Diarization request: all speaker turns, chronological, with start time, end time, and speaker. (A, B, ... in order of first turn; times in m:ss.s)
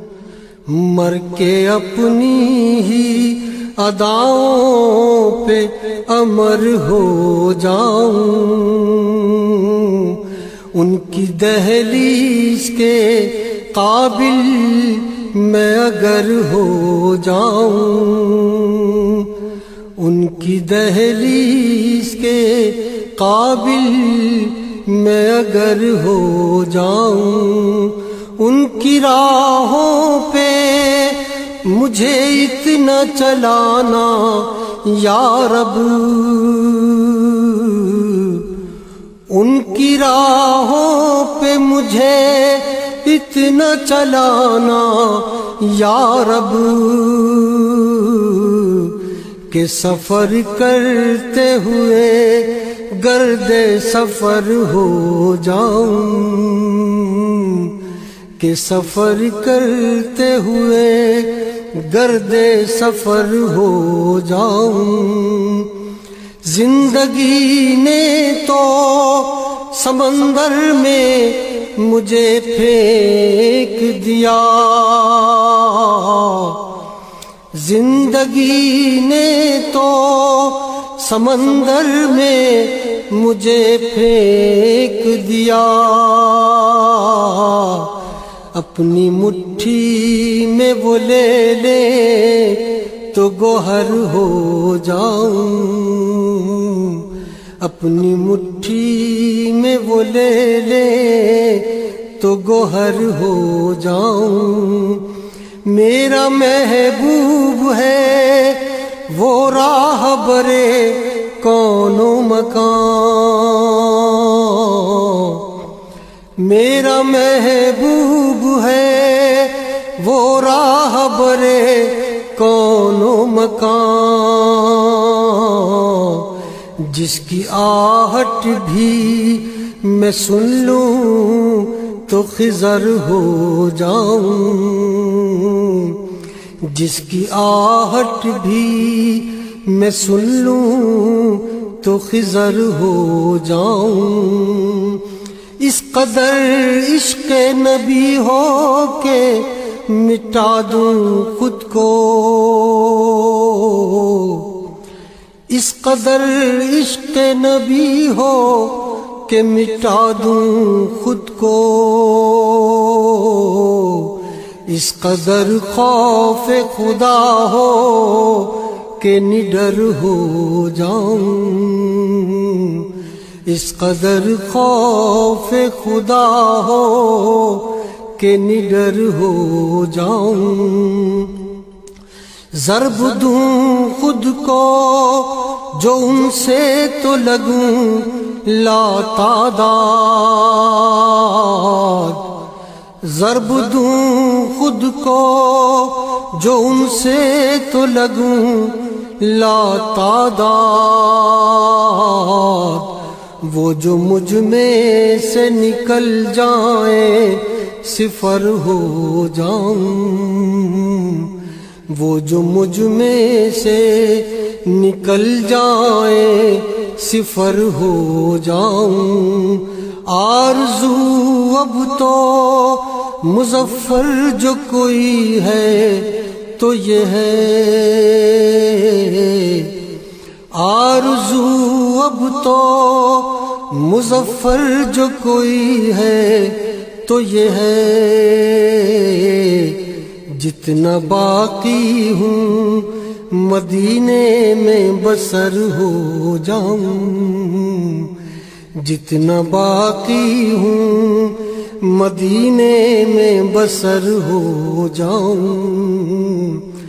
0:00.7-0:19.3 A
0:20.0-0:38.5 A
0:39.3-0:57.8 A
0:58.4-1:05.8 A
1:06.4-1:16.7 A
1:17.5-1:28.0 A
1:28.5-1:37.1 A
1:37.6-1:45.1 A
1:45.6-1:55.5 A
1:56.4-2:16.0 A
2:16.6-2:25.0 A
2:25.6-2:34.6 A
2:35.5-2:52.9 A
2:53.5-3:01.5 A
3:02.5-3:12.3 A
3:13.0-3:31.4 A
3:31.9-3:49.8 A
3:50.5-4:08.2 A
4:08.8-4:16.6 A